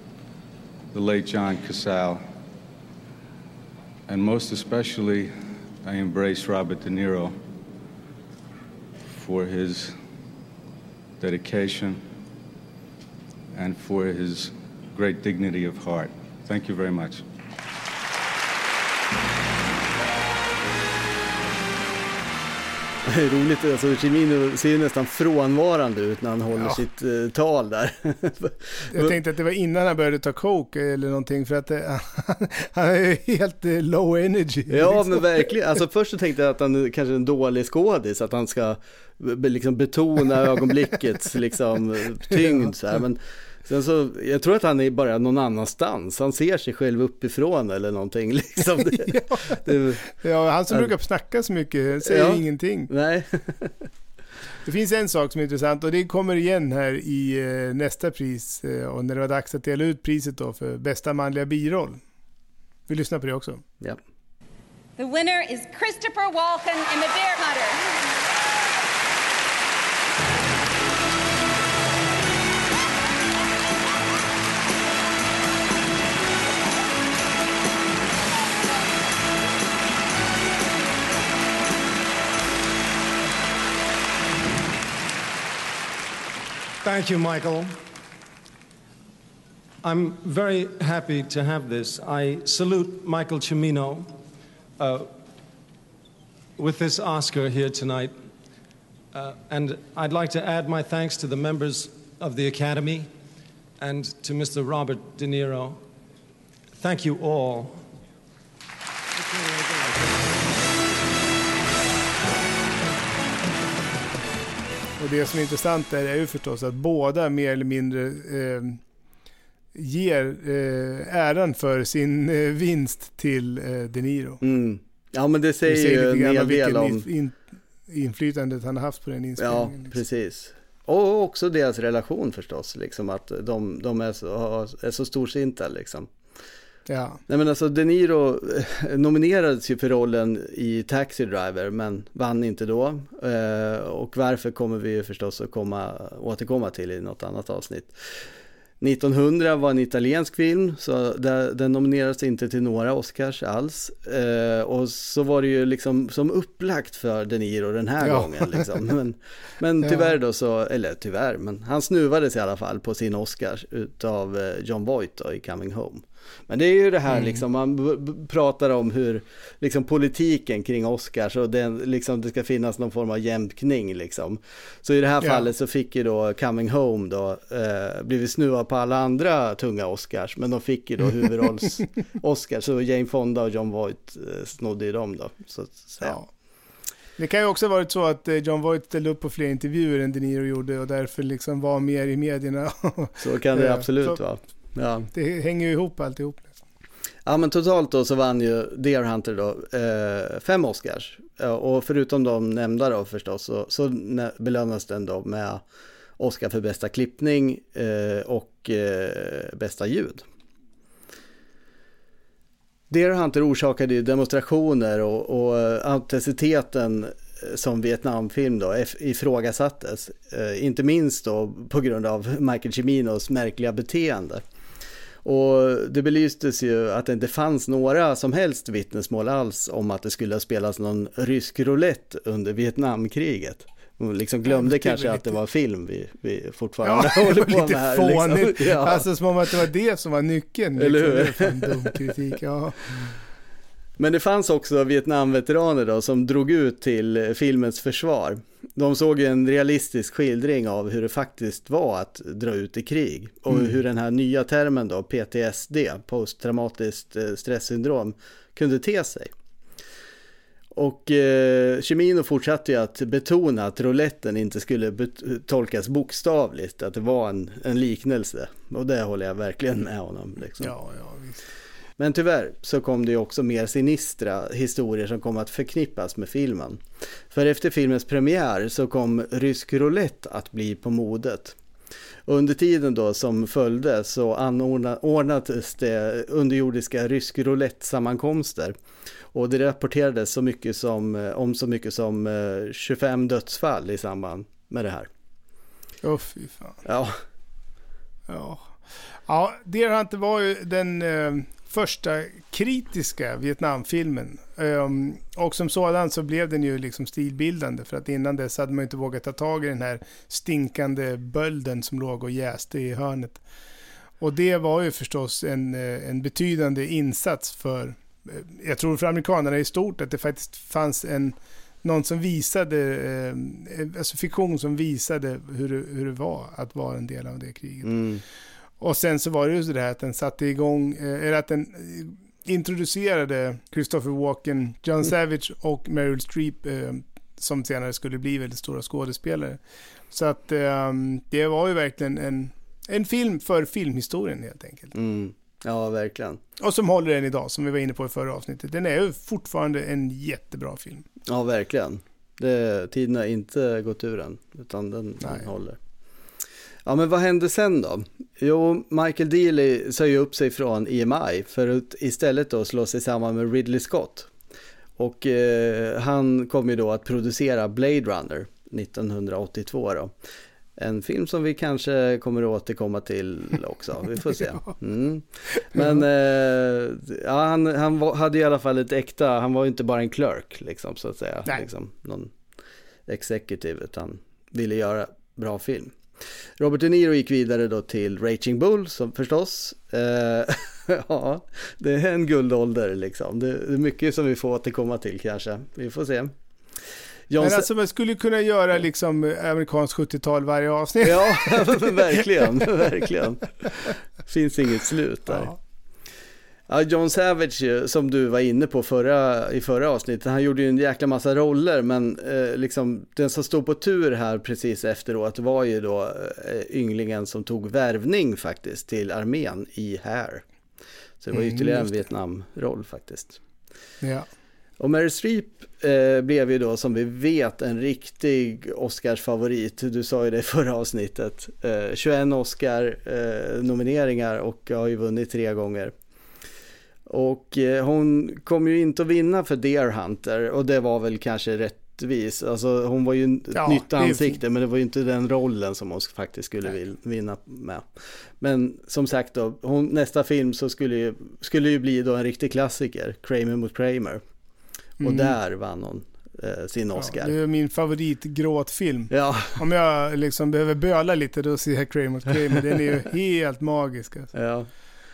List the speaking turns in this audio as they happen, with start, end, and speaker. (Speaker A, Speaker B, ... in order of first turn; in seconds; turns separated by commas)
Speaker A: 0.9-2.2, Speaker A: 4.1-7.4, Speaker A: 9.1-10.0, Speaker A: 11.2-12.0, Speaker A: 13.5-17.2, Speaker B: 23.0-29.2, Speaker C: 28.9-35.5, Speaker B: 34.7-50.0, Speaker C: 42.4-42.7, Speaker C: 48.9-49.6, Speaker C: 50.1-52.9, Speaker B: 52.0-53.9, Speaker C: 54.6-62.0, Speaker C: 62.9-63.6, Speaker D: 65.0-67.9, Speaker E: 86.8-87.8, Speaker E: 89.8-94.2, Speaker E: 94.8-95.2, Speaker E: 96.6-98.2, Speaker E: 99.1-103.1, Speaker E: 103.8-105.8, Speaker E: 106.8-107.9, Speaker E: 109.2-110.1, Speaker C: 115.0-118.8, Speaker C: 119.7-124.4, Speaker B: 124.4-127.0, Speaker C: 125.7-130.0, Speaker B: 129.4-136.1, Speaker C: 136.9-137.2, Speaker B: 137.3-148.0, Speaker B: 148.8-186.2, Speaker C: 158.0-158.7, Speaker C: 159.8-160.1, Speaker C: 167.1-167.4, Speaker C: 186.0-186.3, Speaker C: 187.2-194.2, Speaker B: 193.2-195.1, Speaker C: 195.1-196.6, Speaker B: 197.2-205.6, Speaker B: 206.2-210.2, Speaker B: 212.9-224.4, Speaker B: 225.2-239.1, Speaker C: 234.5-235.3, Speaker C: 236.8-243.2, Speaker B: 240.8-242.0, Speaker B: 244.0-259.3, Speaker B: 260.7-270.7, Speaker C: 270.6-271.4, Speaker B: 272.0-281.6, Speaker B: 282.3-288.8, Speaker B: 289.3-295.1, Speaker C: 296.0-296.8, Speaker B: 296.9-297.2, Speaker C: 298.3-313.4, Speaker C: 314.2-327.9, Speaker B: 327.8-328.2, Speaker C: 328.8-339.6, Speaker C: 340.1-344.9, Speaker B: 344.9-346.4, Speaker C: 346.6-351.0, Speaker B: 351.3-355.8, Speaker C: 355.2-355.5, Speaker B: 356.9-364.3, Speaker B: 365.0-370.1, Speaker B: 370.8-382.3, Speaker C: 375.7-376.0, Speaker B: 383.1-386.0, Speaker B: 386.6-396.3, Speaker B: 397.3-397.7, Speaker C: 397.4-402.1, Speaker B: 401.0-405.5, Speaker B: 406.7-420.4, Speaker B: 421.2-423.4, Speaker C: 421.3-422.0, Speaker C: 424.0-424.3, Speaker B: 424.8-435.9, Speaker B: 437.1-447.9, Speaker C: 443.6-444.4, Speaker B: 448.4-454.2, Speaker C: 455.0-455.4, Speaker B: 455.0-457.4, Speaker C: 457.0-464.3, Speaker B: 459.1-459.6, Speaker B: 464.3-464.7